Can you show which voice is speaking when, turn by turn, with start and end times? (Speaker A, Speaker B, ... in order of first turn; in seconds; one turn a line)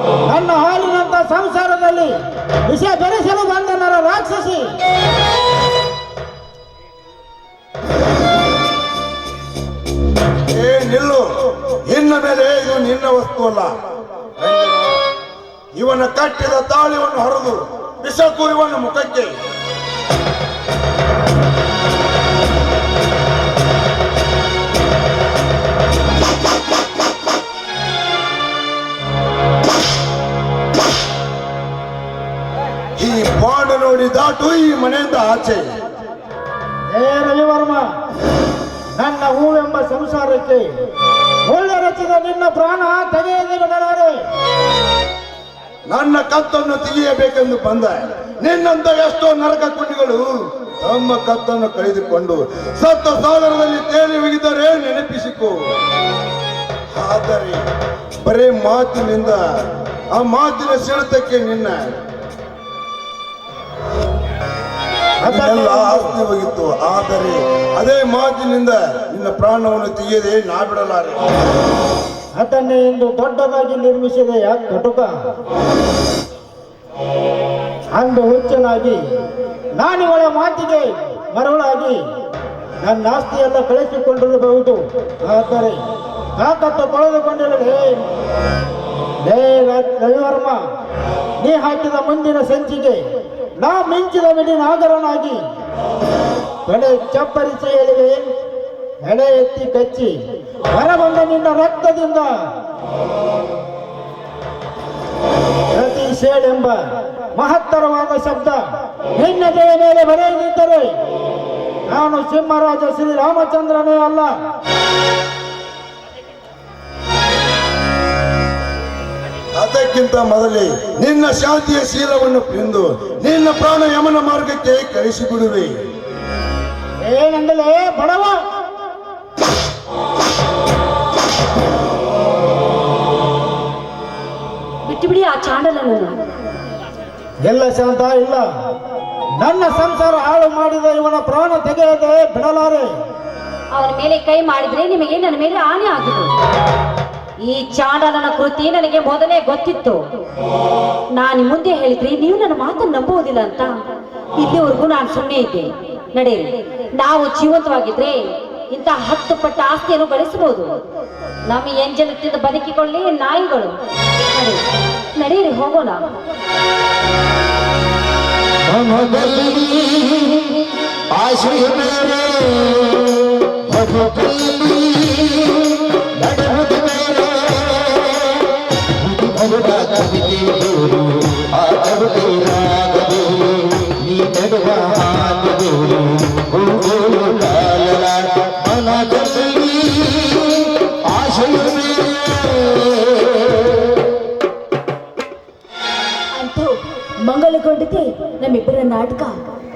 Speaker A: 0.3-4.7
Speaker B: 10.5-11.3
Speaker B: 11.9-13.7
Speaker B: 14.4-15.0
Speaker B: 15.8-19.3
Speaker B: 33.0-35.7
Speaker A: 36.9-37.9
Speaker A: 39.0-40.7
Speaker A: 41.5-44.2
Speaker B: 45.9-55.6
Speaker B: 56.9-57.6
Speaker B: 58.2-59.4
Speaker B: 60.1-61.9
Speaker A: 65.2-66.1
Speaker B: 65.2-71.2
Speaker A: 72.4-75.1
Speaker A: 78.0-79.0
Speaker A: 79.8-82.0
Speaker A: 82.8-85.8
Speaker A: 86.4-88.0
Speaker A: 89.2-90.6
Speaker A: 91.4-93.0
Speaker A: 93.6-95.4
Speaker A: 96.7-98.3
Speaker A: 99.0-100.1
Speaker A: 100.7-102.4
Speaker A: 105.7-106.8
Speaker A: 107.3-111.0
Speaker A: 111.9-114.3
Speaker B: 119.6-125.7
Speaker A: 127.0-128.4
Speaker C: 134.9-136.2
Speaker A: 137.4-138.5
Speaker A: 139.4-142.9
Speaker C: 143.7-146.3
Speaker C: 147.4-150.0
Speaker C: 151.2-153.8
Speaker C: 154.3-160.7
Speaker C: 161.5-163.8
Speaker C: 164.3-164.6
Speaker C: 165.2-166.1
Speaker D: 168.7-170.0
Speaker D: 171.2-172.6
Speaker D: 173.8-174.9
Speaker D: 176.2-177.8
Speaker D: 179.2-190.4
Speaker D: 191.1-192.6
Speaker E: 196.3-199.4